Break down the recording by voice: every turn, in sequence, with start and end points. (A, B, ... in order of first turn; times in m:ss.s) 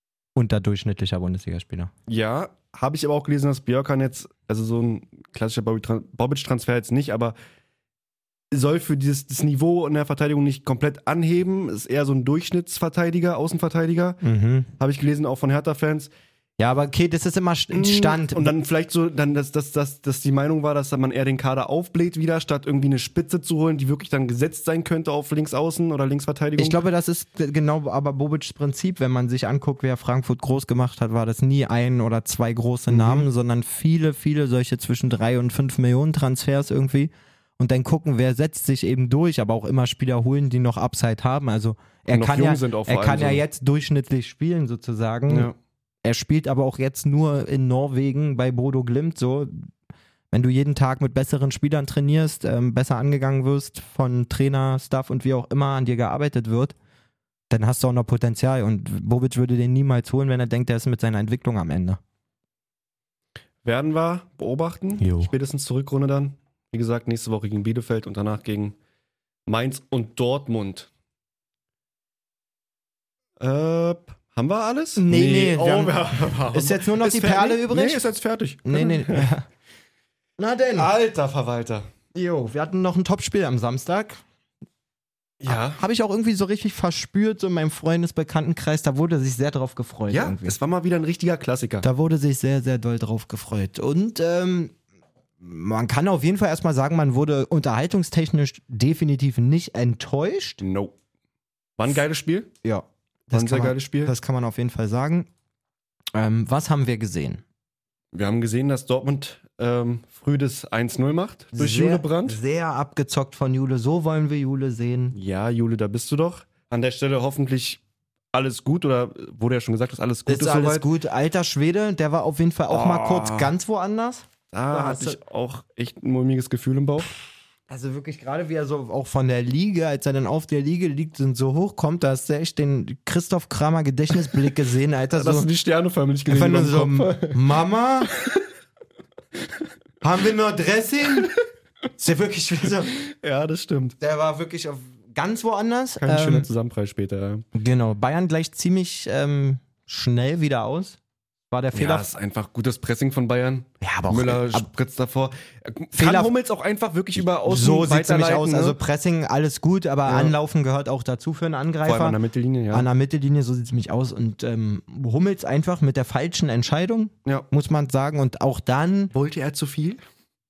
0:00.4-0:01.9 A
0:02.1-0:07.3 B
0:08.5-0:14.2 B
0:14.2-0:14.7 A
0:14.8-0:16.1 B
0:16.6-0:18.5 A
0:17.7-0:26.8 B
0:26.6-0:45.5 A
0:32.9-0:33.3 B
0:42.1-0:43.4 B
0:45.3-0:45.6 B
0:46.0-0:49.7 A
0:50.3-0:56.7 A
0:57.5-1:02.0 A
1:03.6-1:08.8 B
1:05.0-1:05.3 A
1:09.5-1:10.9 B
1:13.4-1:19.3 B
1:15.0-1:18.0 A
1:18.6-1:19.4 A
1:20.4-1:20.9 A
1:20.8-1:21.9 B
1:22.1-1:24.2 A
1:25.4-1:25.8 B
1:25.5-1:30.6 A
1:30.1-1:31.8 B
1:31.8-1:34.7 A
1:35.4-1:40.6 A
1:40.6-1:40.9 B
1:41.8-1:42.5 B
1:42.6-1:45.3 A
1:43.3-1:44.1 B
1:46.1-1:47.4 A
1:48.1-1:52.4 B
1:51.5-1:55.2 A
1:55.1-1:57.8 B
1:58.3-2:00.9 B
2:00.3-2:05.2 A
2:02.7-2:03.5 B
2:04.5-2:07.1 B
2:07.7-2:15.5 A
2:15.1-2:17.4 B
2:16.3-2:18.1 A
2:20.0-2:21.3 A
2:22.0-2:23.0 A
2:22.6-2:24.0 B
2:24.0-2:26.5 A
2:26.0-2:27.4 B
2:27.5-2:31.0 A
2:31.5-2:32.1 A
2:31.7-2:38.8 B
2:33.8-2:34.7 A
2:35.9-2:36.3 A
2:37.4-2:42.2 A
2:40.0-2:40.3 B
2:41.8-2:42.9 B
2:42.7-2:49.1 A
2:49.1-2:50.0 B